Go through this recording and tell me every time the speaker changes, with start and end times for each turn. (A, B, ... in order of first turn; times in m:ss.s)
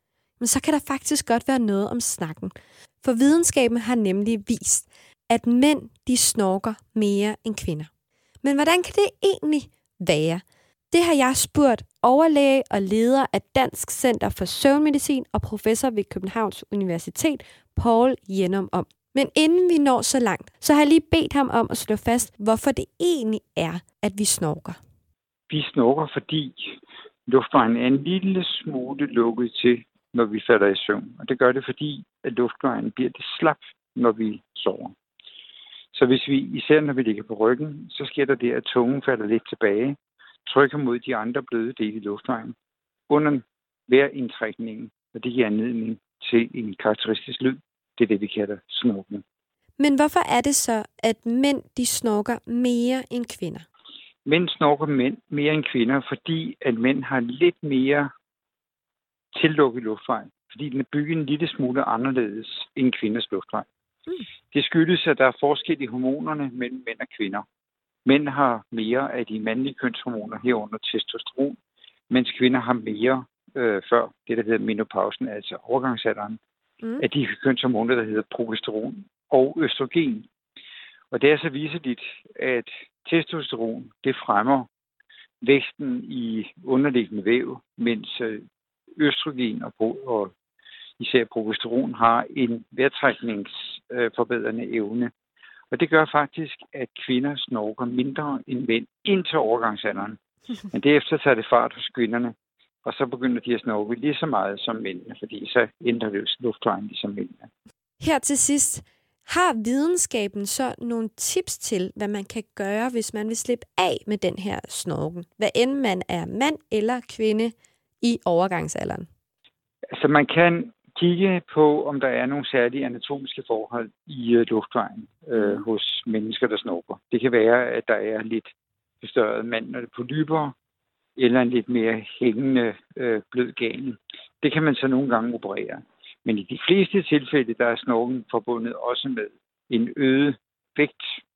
0:00.4-0:07.9 A
0:08.4-0:24.8 A
0:25.5-0:34.9 B
0:35.9-0:42.6 B
0:43.1-0:49.2 B
0:49.8-0:53.6 A
0:54.3-0:58.1 B
0:59.3-1:03.6 B
1:04.5-1:07.4 B
1:08.1-1:11.6 B
1:12.1-1:16.4 B
1:17.0-1:20.3 B
1:21.1-1:24.7 B
1:25.4-1:28.4 B
1:29.0-1:30.3 B
1:31.0-1:35.1 B
1:35.7-1:40.2 B
1:40.7-1:47.5 B
1:48.0-1:59.1 A
2:00.0-2:08.5 B
2:05.3-2:05.6 A
2:09.0-2:10.5 B
2:11.2-2:21.2 B